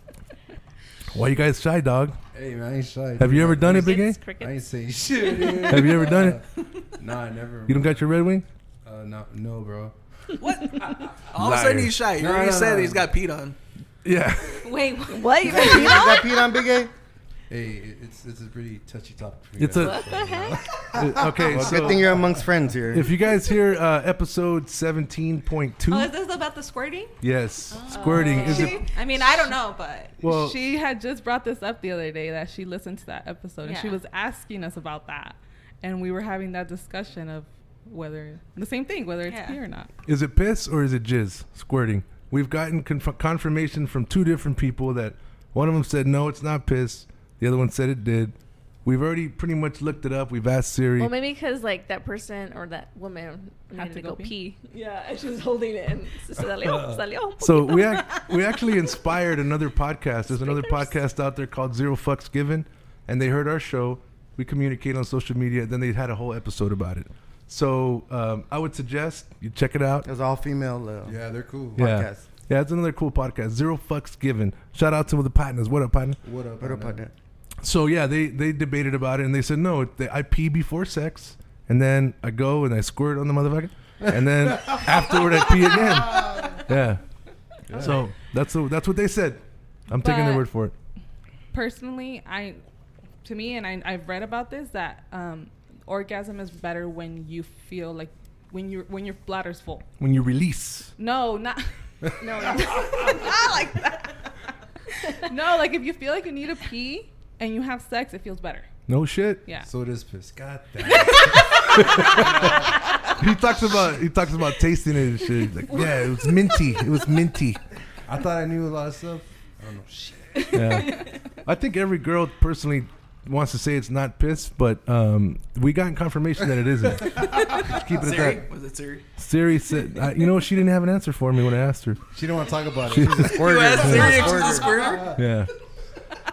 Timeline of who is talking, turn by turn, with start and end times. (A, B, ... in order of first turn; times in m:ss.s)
0:01.1-0:02.2 A
0:02.3-0:08.0 B
0:03.2-0:04.2 A
0:03.6-0:04.6 C
0:05.7-0:06.4 A
0:07.7-0:08.4 A
0:08.8-0:09.9 B
0:10.4-0:13.6 D
0:11.3-0:12.0 A
0:12.2-0:13.1 B
0:14.0-0:14.7 A
0:14.6-0:16.0 E
0:15.1-0:16.5 C
0:15.4-0:16.9 F
0:17.5-0:22.4 B
0:19.6-0:20.2 A
0:19.7-0:20.6 C
0:20.9-0:22.2 A
0:21.4-0:23.1 F
0:22.9-0:26.1 A
0:25.9-0:27.2 E
0:27.2-0:28.8 A
0:27.7-0:30.2 E
0:27.9-0:28.8 C
0:30.2-0:30.6 A
0:30.2-0:39.9 G
0:33.6-0:34.0 E
0:39.2-0:39.6 E
0:40.0-0:51.1 A
0:51.0-0:58.3 C
0:53.7-0:54.4 G
0:56.6-0:56.9 B
0:57.4-1:10.1 A
1:00.3-1:00.9 C
1:10.0-1:11.2 F
1:11.0-1:11.8 B
1:11.8-1:12.2 F
1:11.8-1:16.2 A
1:16.2-1:17.0 B
1:16.6-1:17.1 F
1:17.6-1:27.0 A
1:24.0-1:24.9 B
1:26.2-1:26.5 B
1:27.7-1:28.0 B
1:27.7-1:30.7 A
1:30.0-1:30.5 G
1:31.5-1:32.6 G
1:33.2-1:39.9 G
1:40.0-1:40.9 A
1:41.0-1:41.7 G
1:42.2-1:43.4 C
1:42.4-1:44.1 E
1:45.2-1:48.7 G
1:48.9-1:49.4 A
1:49.6-1:52.7 B
1:51.7-1:52.5 A
1:53.0-1:57.6 A
1:58.0-2:00.6 B
2:00.5-2:08.4 A
2:07.6-2:09.0 D
2:09.2-2:12.0 A
2:12.1-2:15.2 B
2:12.8-2:14.3 A
2:12.9-2:15.0 F
2:13.2-2:15.2 D
2:15.1-2:15.5 A